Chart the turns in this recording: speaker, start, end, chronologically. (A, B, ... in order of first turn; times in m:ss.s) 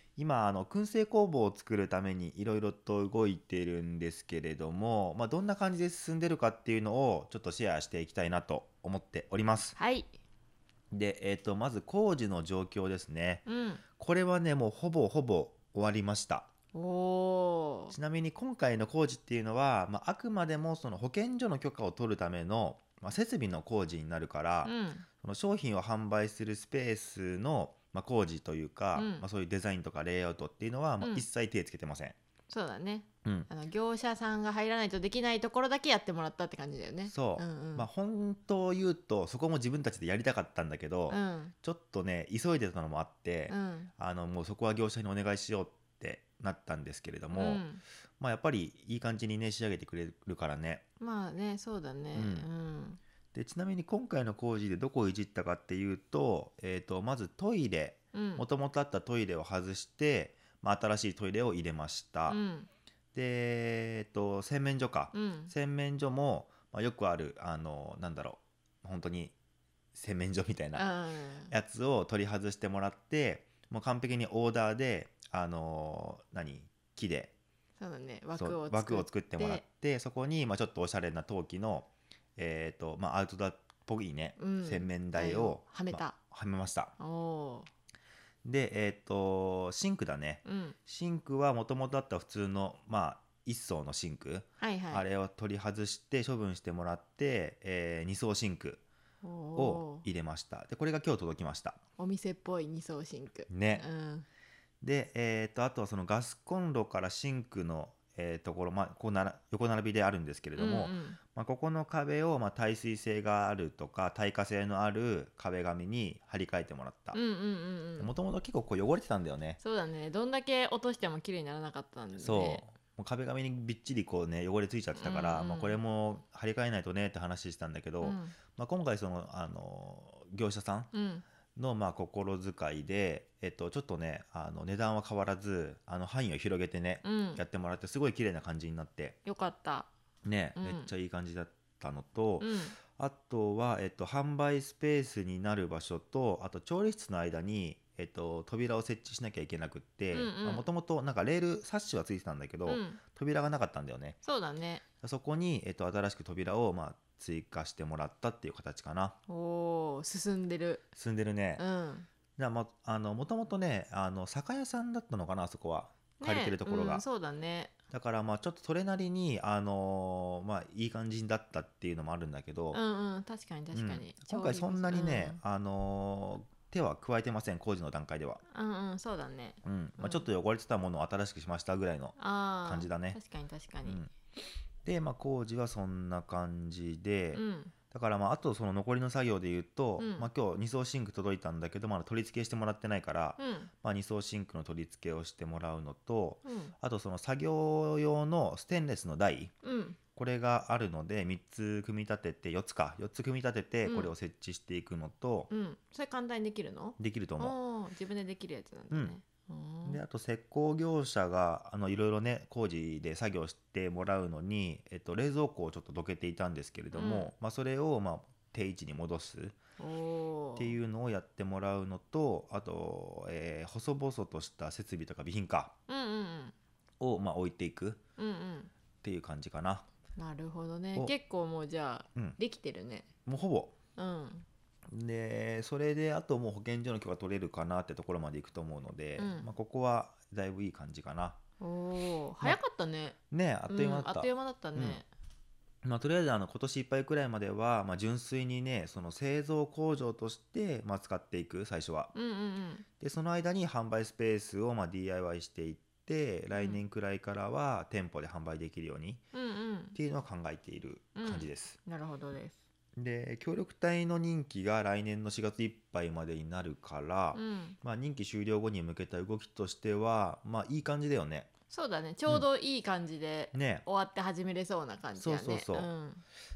0:00.2-0:09.8 A
0:09.8-0:10.1 B
0:10.9-0:13.5 A
0:13.5-0:13.8 B
0:14.0-0:16.5 A
0:16.7-0:18.0 B
0:17.9-0:32.2 A
0:24.6-0:25.1 B
0:28.9-0:29.2 B
0:31.0-0:31.3 B
0:32.5-0:37.9 B
0:37.1-0:47.7 A
0:41.1-0:41.5 B
0:43.5-0:43.9 B
0:47.3-0:47.8 B
0:48.2-0:50.8 A
0:51.0-0:53.0 B
0:52.1-0:52.5 A
0:53.3-1:02.4 A
0:58.1-0:58.4 B
1:02.3-1:02.7 B
1:03.1-1:09.4 A
1:05.1-1:05.5 B
1:09.9-1:10.9 A
1:10.8-1:11.5 B
1:11.5-1:17.3 A
1:17.8-1:19.6 B
1:18.4-1:27.0 A
1:24.4-1:26.2 B
1:27.0-1:27.7 B
1:28.4-1:38.8 A
1:30.4-1:30.8 B
1:34.6-1:35.0 B
1:39.2-1:40.0 B
1:39.6-1:41.8 A
1:42.0-1:44.3 B
1:43.5-1:43.9 A
1:44.8-1:57.2 A
1:50.6-1:51.2 B
1:57.1-1:58.1 B
1:58.0-1:59.6 A
1:59.6-2:02.6 B
2:02.2-2:10.9 A
2:05.0-2:05.8 B
2:08.0-2:08.4 B
2:10.9-2:11.2 B
2:11.6-2:19.2 A
2:17.0-2:17.4 B
2:19.2-2:19.9 B
2:20.2-2:34.2 A
2:20.6-2:20.9 B
2:22.4-2:22.8 B
2:30.1-2:30.7 B
2:32.7-2:33.0 B
2:34.2-2:34.8 B
2:35.0-2:39.2 A
2:39.3-2:40.8 B
2:41.0-2:41.6 A
2:41.6-2:42.1 B
2:42.4-2:47.0 A
2:46.2-2:47.7 B
2:47.9-2:52.8 A
2:52.7-2:55.4 B
2:53.7-2:58.4 A
2:58.5-3:00.3 B
2:59.6-3:03.2 A
3:02.2-3:04.0 B
3:03.8-3:04.1 A
3:04.8-3:19.5 A
3:07.3-3:07.7 B
3:10.0-3:10.3 B
3:13.4-3:13.7 B
3:16.4-3:16.7 B
3:19.6-3:20.0 B
3:20.2-3:25.5 A
3:23.8-3:24.1 B
3:25.5-3:30.0 B
3:27.0-3:27.6 A
3:29.8-3:39.6 A
3:36.9-3:37.3 B
3:39.8-3:40.8 B
3:40.6-3:45.7 A
3:45.9-3:46.5 B
3:47.0-3:48.0 A
3:48.2-3:48.7 B
3:49.0-3:49.9 A
3:50.2-3:53.1 B
3:53.3-3:53.8 A
3:54.0-3:54.4 B
3:54.9-4:01.4 A
3:59.2-3:59.5 B
4:01.6-4:03.2 B
4:03.3-4:05.0 A
4:03.7-4:05.1 B
4:05.8-4:12.1 A
4:12.1-4:12.8 B
4:13.0-4:19.2 A
4:16.5-4:16.8 B
4:19.3-4:20.0 B
4:20.0-4:21.8 A
4:21.2-4:22.6 B
4:23.0-4:31.5 A
4:27.3-4:27.8 B
4:31.7-4:36.2 B
4:33.5-4:33.9 A
4:35.2-4:35.9 A